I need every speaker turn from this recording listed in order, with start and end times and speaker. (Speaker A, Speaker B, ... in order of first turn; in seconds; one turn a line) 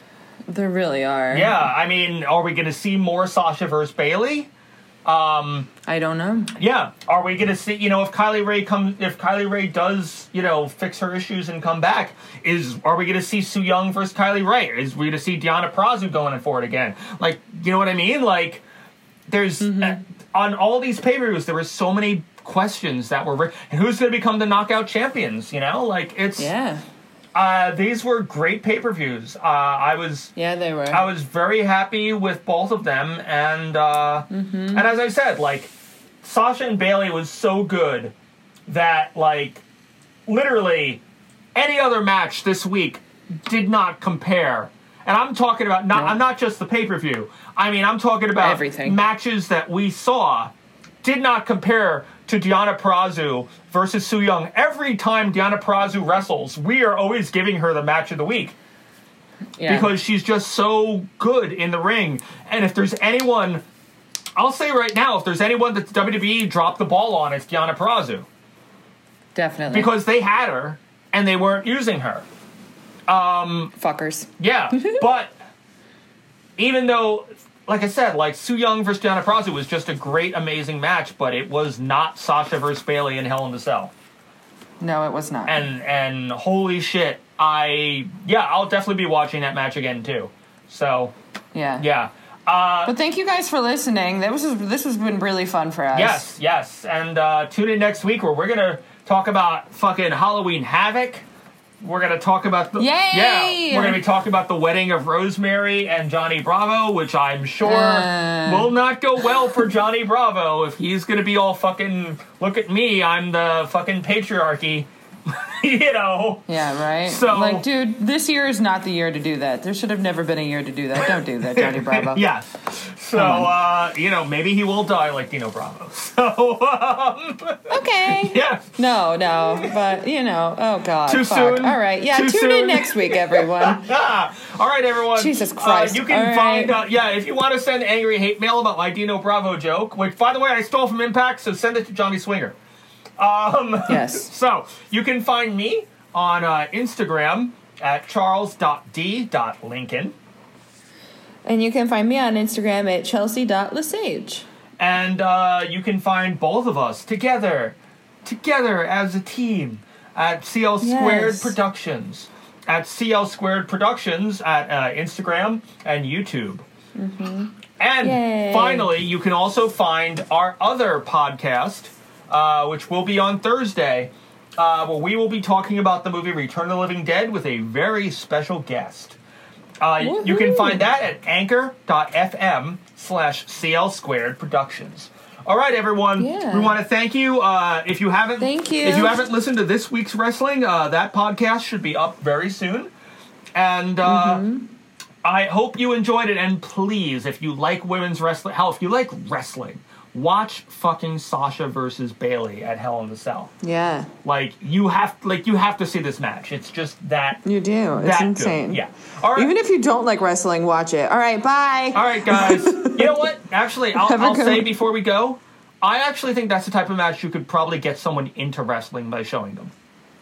Speaker A: 0.5-1.7
Speaker B: 1.3-4.5
Speaker B: 5.0-5.7
Speaker A: 5.8-6.6
Speaker B: 6.6-18.6
Speaker B: 19.3-26.5
Speaker A: 19.6-20.0
Speaker A: 26.4-26.8
Speaker B: 27.4-30.3
Speaker A: 30.4-31.1
Speaker B: 30.9-38.1
Speaker A: 34.3-34.8
Speaker B: 38.7-39.6
Speaker B: 40.3-41.0
Speaker B: 41.5-58.5
Speaker A: 45.9-46.2
Speaker A: 48.4-49.0
Speaker A: 59.6-59.9
Speaker B: 59.7-63.6
Speaker B: 64.4-68.3
Speaker A: 69.3-69.9
Speaker B: 69.7-72.3
Speaker B: 73.1-73.7
Speaker A: 73.8-75.0
Speaker B: 74.4-75.4
Speaker B: 76.6-83.9
Speaker A: 84.8-85.7
Speaker B: 85.5-91.1
Speaker A: 91.5-91.8
Speaker B: 91.8-93.0
Speaker A: 92.8-96.3
Speaker B: 95.9-101.2
Speaker B: 101.8-116.5
Speaker A: 102.8-104.0
Speaker A: 107.6-108.7
Speaker A: 116.5-122.3
Speaker B: 117.0-117.7
Speaker B: 121.0-128.8
Speaker A: 123.1-123.5
Speaker A: 127.7-133.9
Speaker B: 129.3-129.8
Speaker B: 131.1-142.6
Speaker A: 135.2-136.8
Speaker B: 143.2-150.2
Speaker A: 143.9-144.3
Speaker A: 151.5-154.5
Speaker B: 154.8-166.7
Speaker A: 160.8-161.6
Speaker A: 167.0-168.9
Speaker B: 167.8-179.2
Speaker B: 179.8-192.9
Speaker A: 180.0-180.9
Speaker A: 186.2-186.8
Speaker A: 188.4-189.2
Speaker B: 193.6-194.4
Speaker A: 194.0-194.7
Speaker B: 195.2-203.5
Speaker A: 203.6-204.1
Speaker B: 204.2-207.4
Speaker A: 207.4-208.8
Speaker B: 207.9-209.5
Speaker A: 209.3-213.2
Speaker B: 211.9-219.7
Speaker A: 213.9-214.7